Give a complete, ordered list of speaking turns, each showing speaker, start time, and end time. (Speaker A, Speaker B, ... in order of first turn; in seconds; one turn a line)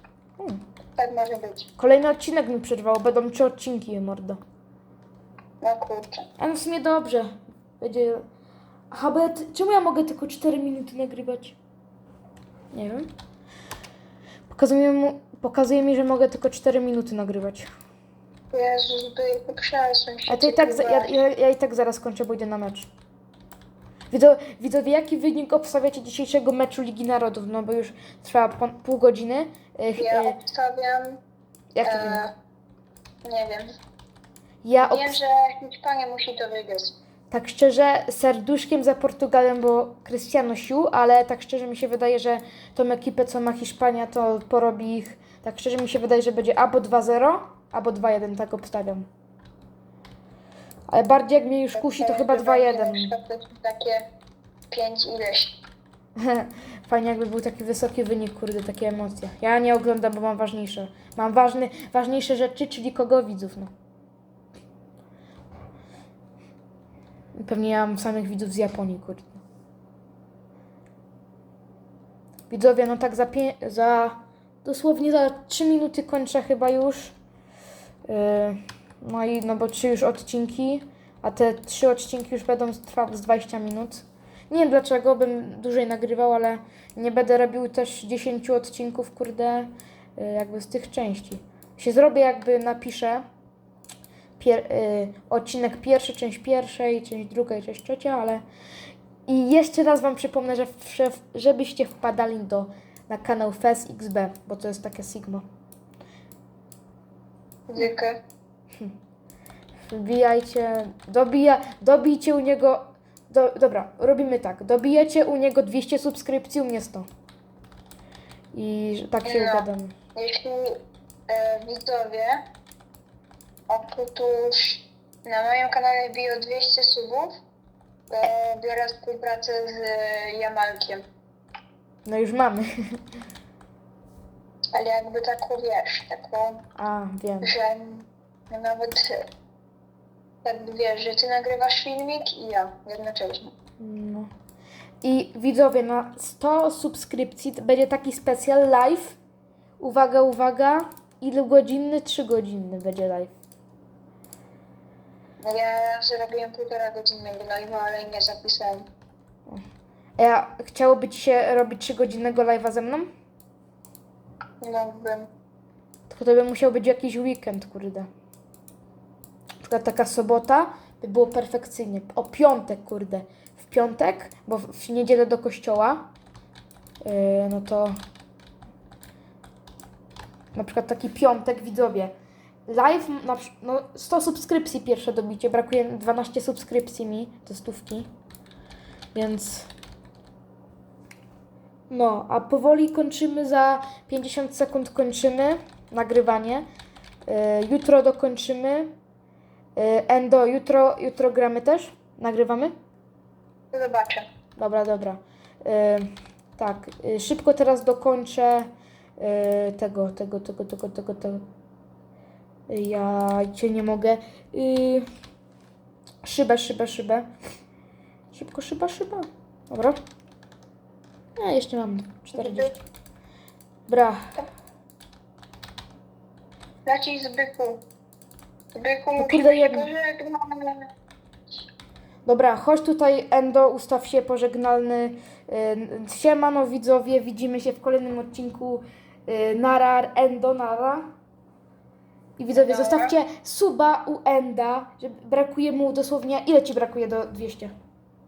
Speaker A: 1.0-1.7
Speaker B: 1.8-4.4
Speaker A: 5.6-6.3
Speaker B: 6.4-8.2
Speaker B: 8.9-11.6
Speaker B: 12.7-13.1
Speaker B: 14.5-17.7
Speaker A: 18.5-21.1
Speaker B: 20.3-22.9
Speaker B: 24.1-30.4
Speaker A: 30.0-31.2
Speaker B: 31.8-32.2
Speaker A: 31.8-32.3
Speaker A: 33.2-33.7
Speaker B: 34.6-35.1
Speaker A: 34.8-37.0
Speaker B: 37.3-49.1
Speaker B: 50.9-53.1
Speaker A: 51.8-54.1
Speaker A: 54.7-55.6
Speaker B: 56.2-63.7
Speaker B: 67.3-69.4
Speaker B: 72.5-77.2
Speaker B: 78.1-93.2
Speaker B: 94.4-98.4
Speaker B: 99.3-105.4
Speaker A: 107.7-108.2
Speaker B: 109.9-117.1
Speaker B: 118.5-120.0
Speaker A: 119.2-122.4
Speaker A: 123.7-127.3
Speaker A: 128.1-131.0
Speaker B: 132.1-132.7
Speaker A: 134.7-136.7
Speaker B: 136.8-137.6
Speaker A: 137.4-139.3
Speaker A: 140.4-143.5
Speaker B: 143.8-144.3
Speaker B: 145.0-149.2
Speaker B: 149.8-153.3
Speaker A: 155.4-158.9
Speaker B: 160.2-163.1
Speaker A: 164.6-165.3
Speaker B: 166.1-168.1
Speaker B: 169.6-176.1
Speaker B: 177.0-177.9
Speaker B: 180.5-182.1
Speaker B: 182.7-188.1
Speaker B: 189.1-189.7
Speaker B: 191.9-196.7
Speaker B: 197.3-198.9
Speaker B: 199.8-202.7
Speaker A: 203.7-204.3
Speaker B: 204.6-211.4
Speaker B: 212.7-215.1
Speaker B: 216.2-217.3
Speaker B: 218.3-220.0
Speaker B: 221.4-222.8
Speaker A: 222.3-222.7
Speaker B: 223.9-224.4
Speaker A: 226.9-227.8
Speaker A: 228.7-230.9
Speaker B: 229.2-229.9
Speaker B: 232.3-241.1
Speaker B: 242.4-247.7
Speaker A: 242.5-243.2